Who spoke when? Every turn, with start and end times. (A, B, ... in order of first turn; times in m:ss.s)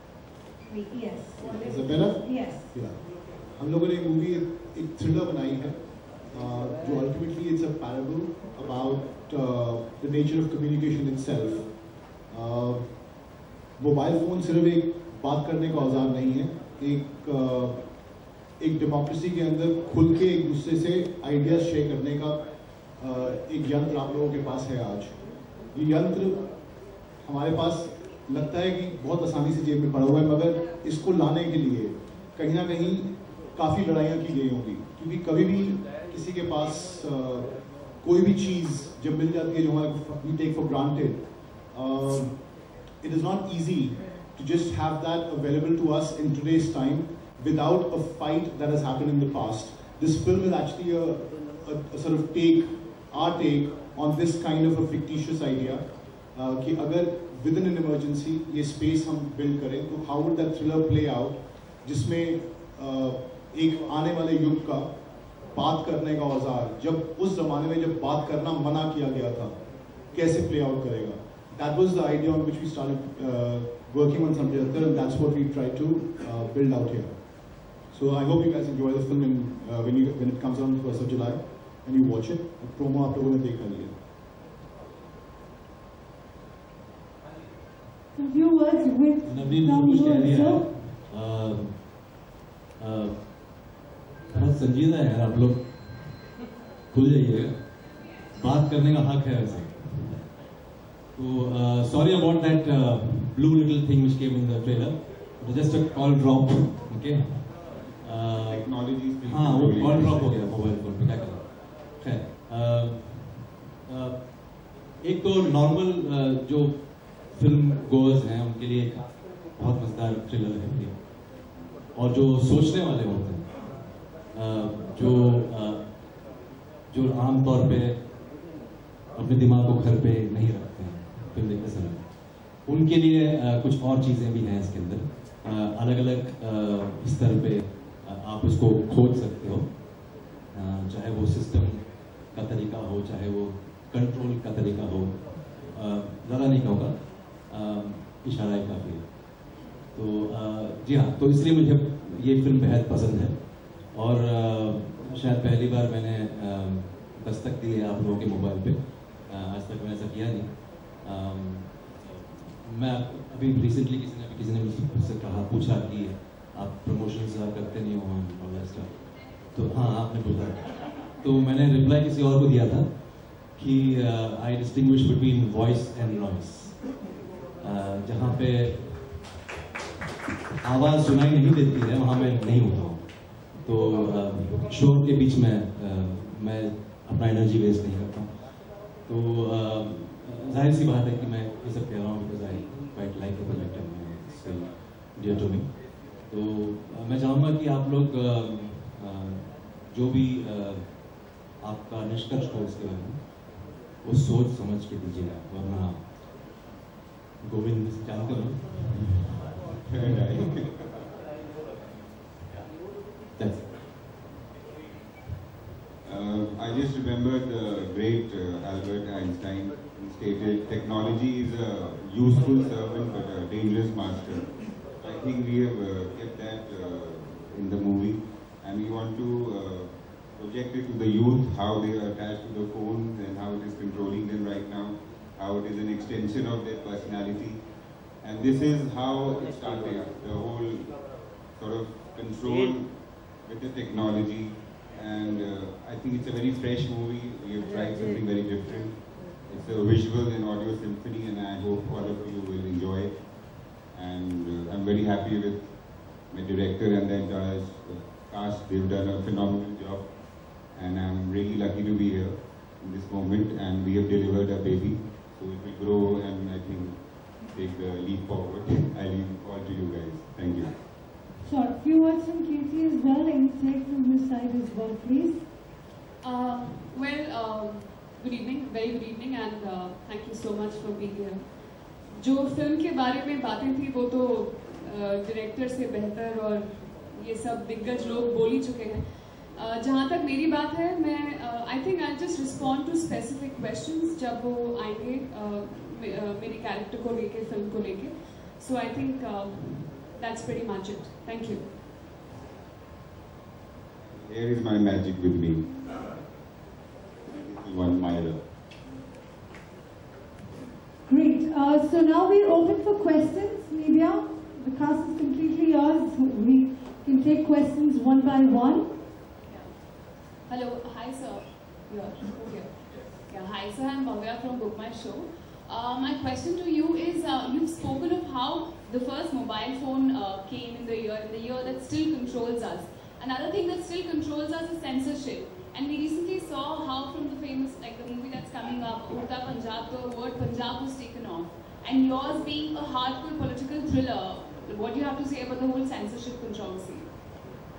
0:00.6-0:02.8 A
0:01.4-0:03.0 B
0:03.6-0:11.7 B
0:12.3-0:13.0 B
0:13.8-0:17.8 B
0:18.6-0:22.4 B
0:23.0-0:25.1 B
0:25.7-0:26.4 B
0:27.2-0:37.5 B
0:38.0-0:42.4 B
0:43.0-0:55.8 B
0:56.3-1:04.9 B
1:05.5-1:09.5 B
1:10.1-1:17.1 B
1:17.9-1:23.9 B
1:28.1-1:30.7 A
1:29.2-1:31.9 C
1:32.8-1:33.5 C
1:34.3-1:36.3 C
1:36.9-1:40.4 C
1:41.1-2:01.2 C
1:48.4-1:50.5 D
2:01.9-2:06.1 C
2:06.9-2:08.1 C
2:09.1-2:57.0 C
2:57.6-2:59.2 C
3:00.6-3:26.2 C
3:27.4-3:29.3 C
3:29.8-3:30.7 D
3:30.0-3:30.3 C
3:33.4-3:33.7 C
3:36.0-3:57.6 D
3:58.2-4:30.7 D
4:31.4-4:35.4 A
4:36.2-4:41.5 E
4:42.2-5:01.6 E
5:04.1-5:05.7 D
5:07.2-5:08.4 D
5:11.1-5:18.9 A
5:19.4-5:19.7 E
5:20.5-5:47.1 E